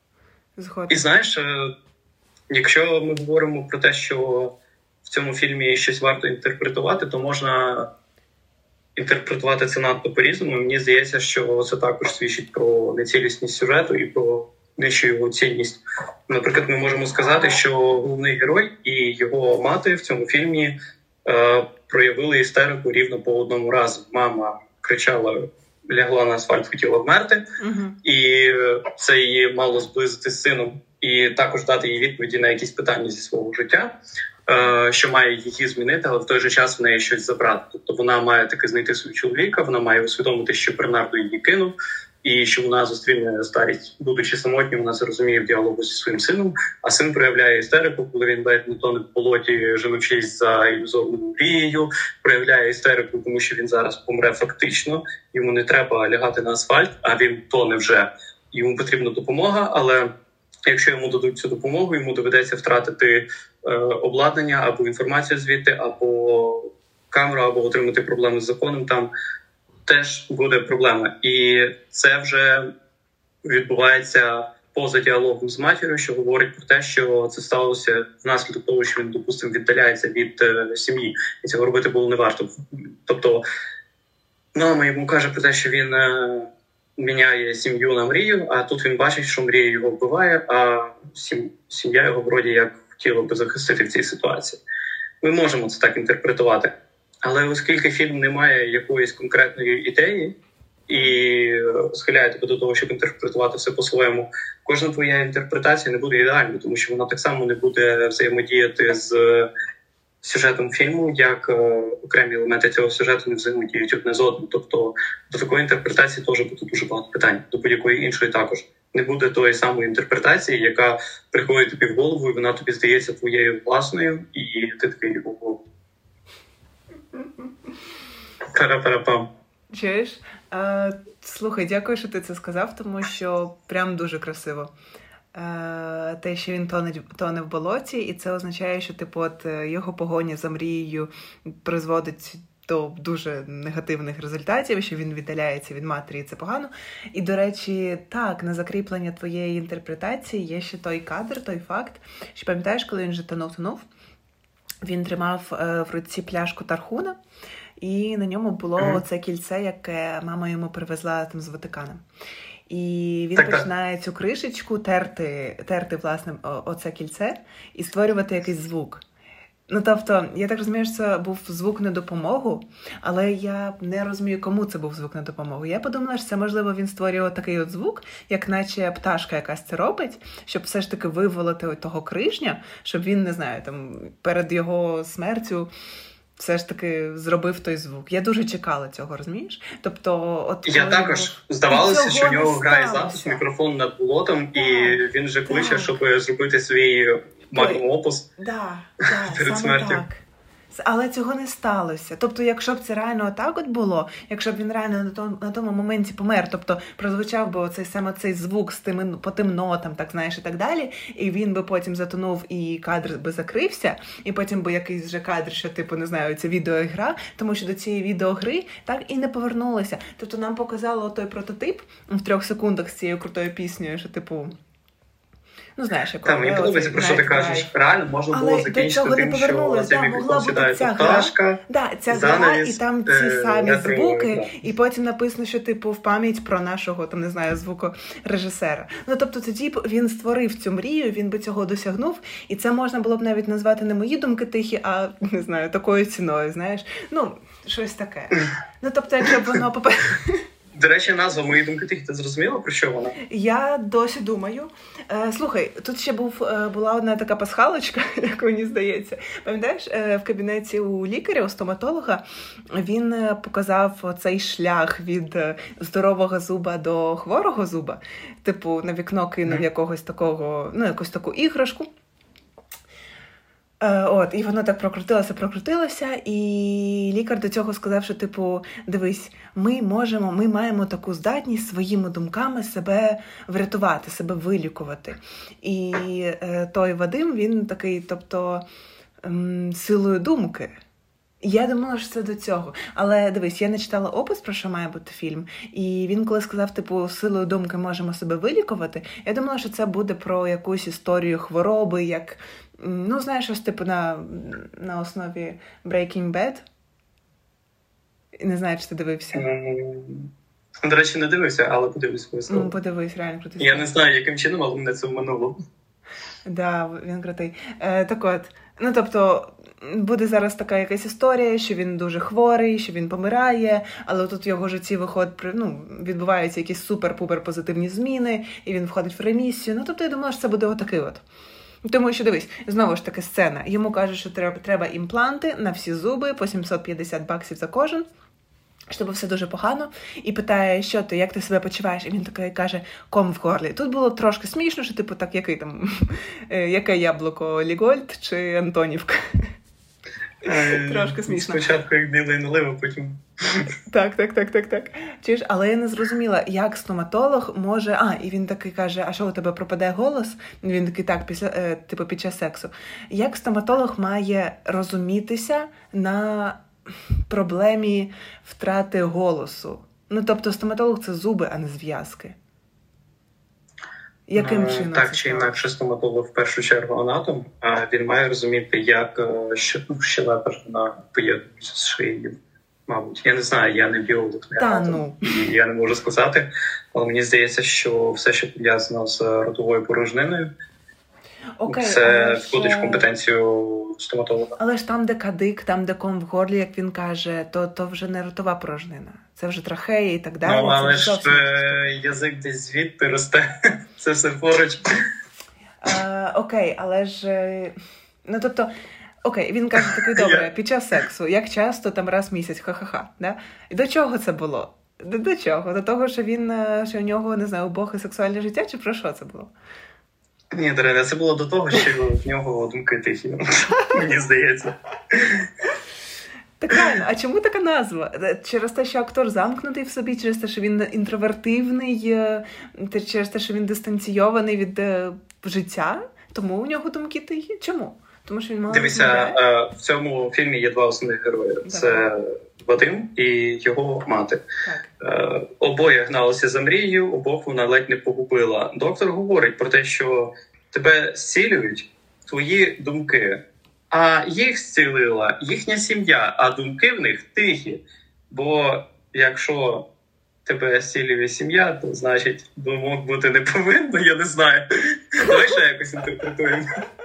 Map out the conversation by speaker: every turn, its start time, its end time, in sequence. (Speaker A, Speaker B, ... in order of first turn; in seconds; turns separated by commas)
Speaker A: 0.6-1.0, Speaker B: 0.9-1.7, Speaker B: 2.5-4.5, Speaker B: 5.0-7.9, Speaker B: 9.0-20.7, Speaker B: 21.2-27.4, Speaker A: 27.6-28.0, Speaker B: 28.0-34.0, Speaker B: 34.5-60.1, Speaker B: 60.7-69.1, Speaker B: 69.9-72.7, Speaker B: 73.4-83.4, Speaker B: 84.5-94.6, Speaker B: 95.2-100.4, Speaker B: 100.9-109.5, Speaker B: 110.2-125.6, Speaker B: 128.5-129.3, Speaker A: 129.7-134.7, Speaker A: 135.3-153.8, Speaker A: 154.8-157.2, Speaker A: 157.8-162.0, Speaker A: 162.7-169.0, Speaker B: 163.4-163.7, Speaker A: 169.7-185.7, Speaker A: 186.4-193.4, Speaker B: 190.7-198.3, Speaker A: 194.6-195.9, Speaker A: 197.6-197.8, Speaker A: 198.4-224.5, Speaker B: 199.3-200.0, Speaker A: 225.8-227.7, Speaker B: 226.2-234.5, Speaker A: 228.3-250.4, Speaker B: 250.7-253.2, Speaker A: 253.2-271.9, Speaker A: 273.8-288.6, Speaker A: 289.2-290.7, Speaker A: 291.4-306.6, Speaker A: 308.4-309.4, Speaker B: 309.3-310.3, Speaker B: 310.8-312.7, Speaker A: 312.5-313.9, Speaker B: 313.6-315.6, Speaker A: 316.4-331.2, Speaker A: 331.8-338.1, Speaker A: 338.9-349.5, Speaker B: 350.4-353.7, Speaker A: 350.4-351.7, Speaker A: 353.9-366.6, Speaker A: 367.3-372.4, Speaker A: 374.3-375.6, Speaker B: 374.4-382.4, Speaker B: 382.9-390.5, Speaker A: 384.6-385.2, Speaker A: 391.6-393.1, Speaker B: 391.7-394.6, Speaker A: 394.6-401.9, Speaker B: 400.4-403.4, Speaker B: 404.0-405.0, Speaker A: 405.8-408.7, Speaker A: 409.2-419.5, Speaker B: 410.1-410.5, Speaker B: 420.5-425.5, Speaker A: 426.6-439.4, Speaker B: 438.7-444.4, Speaker A: 441.6-442.1, Speaker A: 444.6-444.9, Speaker B: 445.0-459.9, Speaker B: 460.4-466.7